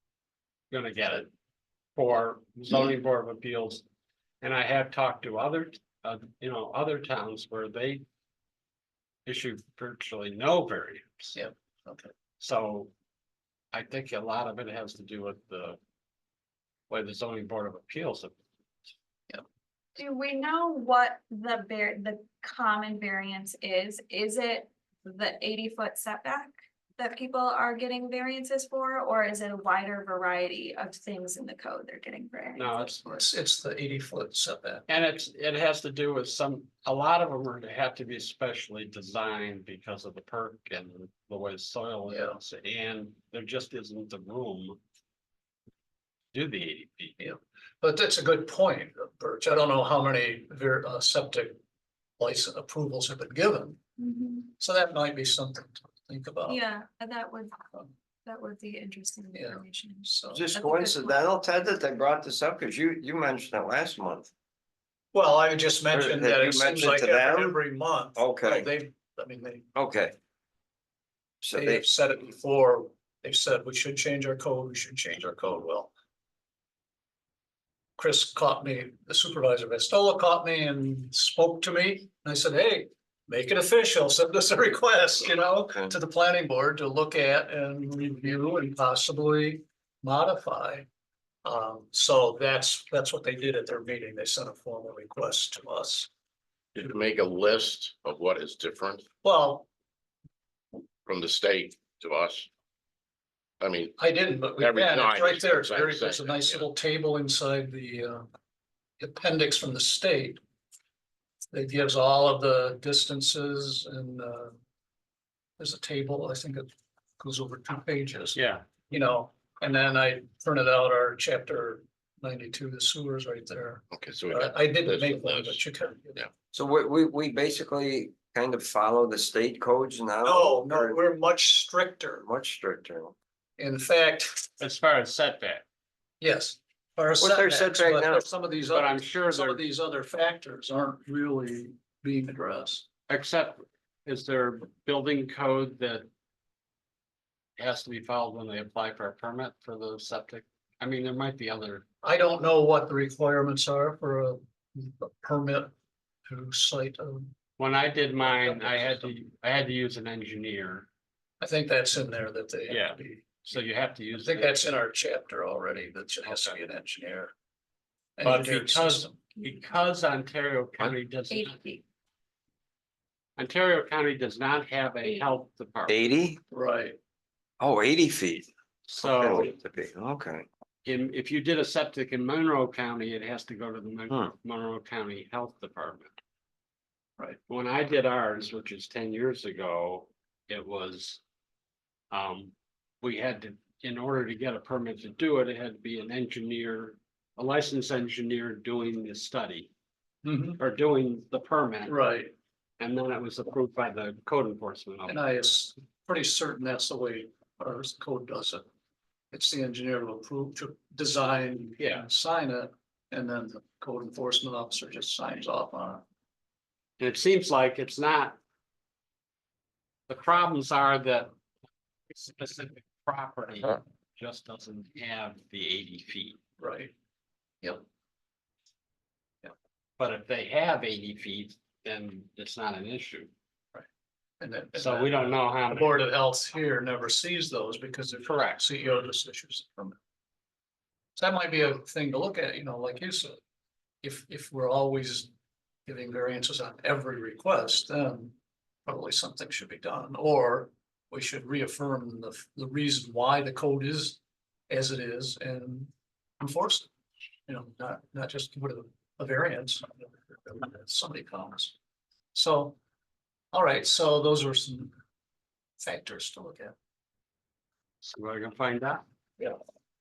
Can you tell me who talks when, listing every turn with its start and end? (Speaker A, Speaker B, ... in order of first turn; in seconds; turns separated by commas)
Speaker A: 0.7-1.3, Speaker A: 1.9-3.8, Speaker A: 4.4-8.0, Speaker A: 9.2-11.3, Speaker B: 11.3-12.1, Speaker A: 12.4-12.9, Speaker A: 13.7-15.8, Speaker A: 16.9-18.3, Speaker C: 19.9-33.0, Speaker A: 32.5-33.2, Speaker B: 33.0-34.8, Speaker A: 34.9-44.8, Speaker B: 42.1-42.4, Speaker A: 46.3-47.2, Speaker B: 47.2-51.6, Speaker B: 52.2-53.8, Speaker C: 54.0-54.5, Speaker B: 54.6-56.6, Speaker C: 56.5-61.2, Speaker B: 59.3-60.5, Speaker D: 60.3-64.3, Speaker B: 65.1-69.7, Speaker D: 65.9-67.6, Speaker D: 68.2-68.7, Speaker D: 69.7-70.1, Speaker D: 71.4-71.9, Speaker B: 71.5-75.9, Speaker B: 78.0-90.9, Speaker B: 91.4-96.1, Speaker E: 96.7-99.0, Speaker B: 99.2-99.7, Speaker E: 101.0-102.5, Speaker E: 103.6-104.0, Speaker B: 104.0-108.2, Speaker E: 104.6-106.7, Speaker B: 109.0-110.4, Speaker B: 111.5-114.5, Speaker B: 115.6-116.7, Speaker B: 117.2-126.3, Speaker A: 118.3-118.7, Speaker E: 123.9-125.6, Speaker D: 126.5-131.0, Speaker B: 130.2-132.2, Speaker D: 132.2-133.1, Speaker B: 133.6-134.5, Speaker A: 134.6-135.6, Speaker B: 136.2-142.8, Speaker D: 137.2-138.2, Speaker A: 138.7-139.6, Speaker A: 143.1-146.1, Speaker A: 147.6-151.8, Speaker B: 152.0-155.7, Speaker B: 156.3-157.3, Speaker A: 157.6-160.9, Speaker B: 158.2-159.1, Speaker B: 161.4-163.4, Speaker A: 162.7-164.6, Speaker B: 164.1-167.3, Speaker A: 166.2-166.6, Speaker B: 168.2-169.2, Speaker A: 168.2-171.6, Speaker C: 171.3-171.8, Speaker A: 173.4-176.0, Speaker D: 175.9-176.4, Speaker B: 176.5-177.0, Speaker D: 177.6-178.5, Speaker A: 178.9-179.5, Speaker D: 179.0-180.4, Speaker A: 180.8-186.1, Speaker A: 187.5-191.2, Speaker A: 192.1-199.7, Speaker B: 200.2-200.6, Speaker A: 200.6-202.0, Speaker B: 201.8-202.3, Speaker A: 202.8-205.2, Speaker B: 205.1-208.6, Speaker B: 209.3-216.0, Speaker A: 211.8-212.1, Speaker A: 217.0-218.4, Speaker A: 220.1-221.3, Speaker A: 222.1-226.4, Speaker B: 226.6-226.9, Speaker A: 230.0-233.3, Speaker B: 234.4-240.0, Speaker A: 234.7-236.0, Speaker A: 238.2-238.6, Speaker B: 241.2-243.4, Speaker B: 244.0-245.3, Speaker B: 245.8-248.3, Speaker B: 248.8-254.2, Speaker B: 254.7-256.9, Speaker B: 257.5-261.7, Speaker B: 262.3-262.8, Speaker B: 263.5-264.9, Speaker B: 265.8-266.7, Speaker A: 268.0-269.0